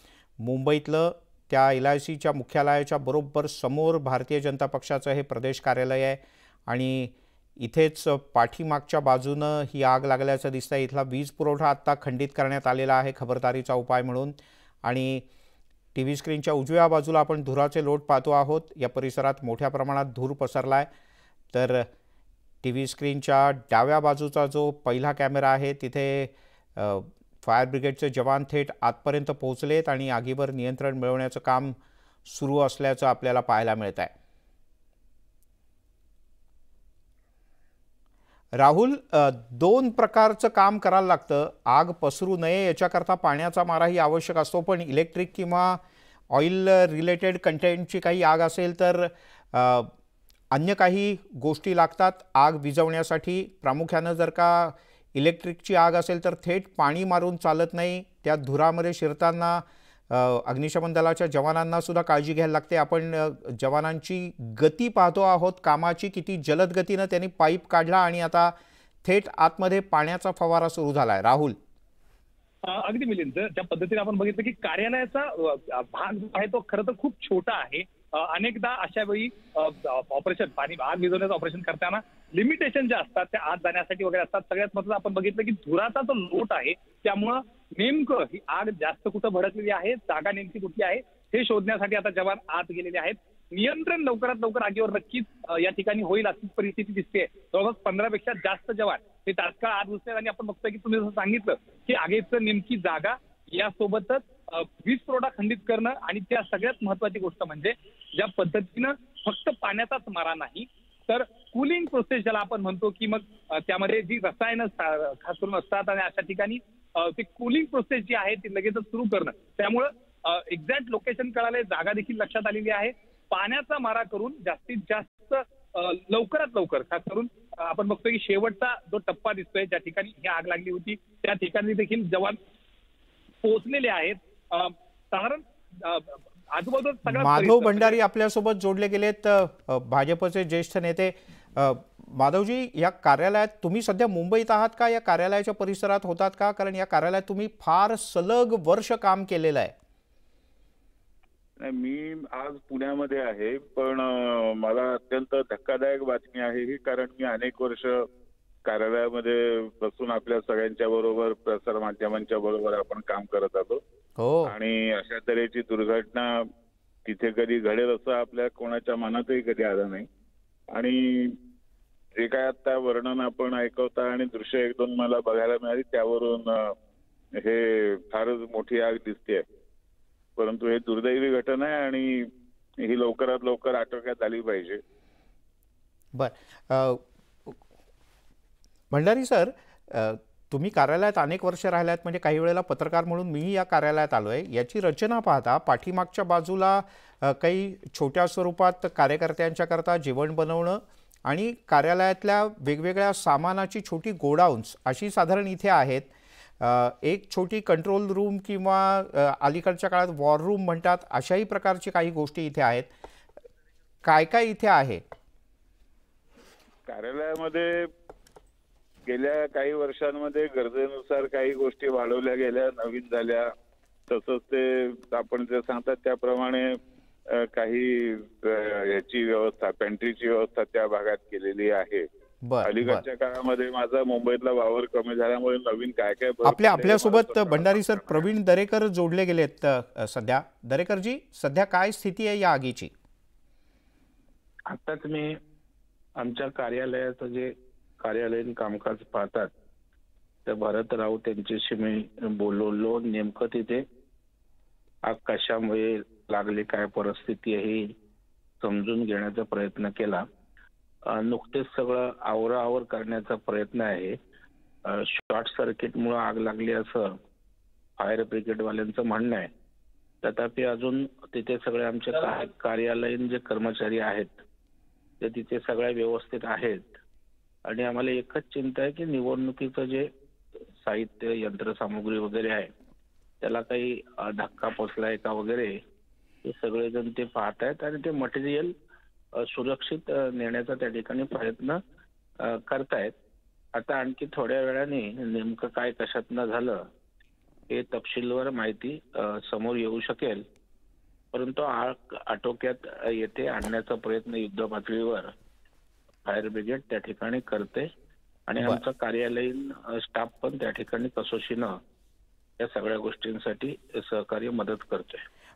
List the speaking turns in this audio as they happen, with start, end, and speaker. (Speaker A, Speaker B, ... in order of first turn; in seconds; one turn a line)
Speaker A: 0.4-15.2
Speaker A: 15.9-20.9
Speaker A: 21.5-21.9
Speaker A: 22.6-34.1
Speaker A: 38.5-49.9
Speaker A: 50.5-71.6
Speaker B: 72.6-132.4
Speaker B: 133.4-138.0
Speaker A: 137.1-149.7
Speaker C: 151.6-157.9
Speaker C: 158.6-163.8
Speaker A: 164.2-164.5
Speaker C: 164.4-166.3
Speaker C: 167.1-170.1
Speaker C: 170.7-171.3
Speaker C: 172.2-176.7
Speaker C: 177.4-179.4
Speaker C: 180.4-182.3
Speaker C: 182.8-184.8
Speaker A: 186.1-187.6
Speaker A: 188.9-212.9
Speaker A: 214.0-215.0
Speaker C: 216.9-217.9
Speaker C: 219.1-223.5
Speaker C: 224.1-226.8
Speaker C: 227.3-232.1
Speaker A: 232.4-233.0
Speaker C: 232.6-238.3
Speaker A: 236.4-242.9
Speaker D: 244.7-245.4
Speaker D: 246.2-249.5
Speaker D: 250.4-253.8
Speaker D: 255.1-257.9
Speaker D: 258.6-260.2
Speaker D: 261.1-264.2
Speaker D: 264.9-267.2
Speaker D: 268.0-269.5
Speaker D: 270.2-274.4
Speaker D: 275.2-277.0
Speaker D: 277.6-280.1
Speaker D: 280.8-282.7
Speaker D: 283.4-285.8
Speaker D: 286.4-288.7
Speaker D: 289.4-291.8
Speaker D: 292.4-293.1
Speaker D: 293.7-296.9
Speaker D: 297.7-300.4
Speaker D: 301.3-305.3
Speaker D: 306.2-307.9
Speaker D: 308.5-311.8
Speaker D: 312.6-315.2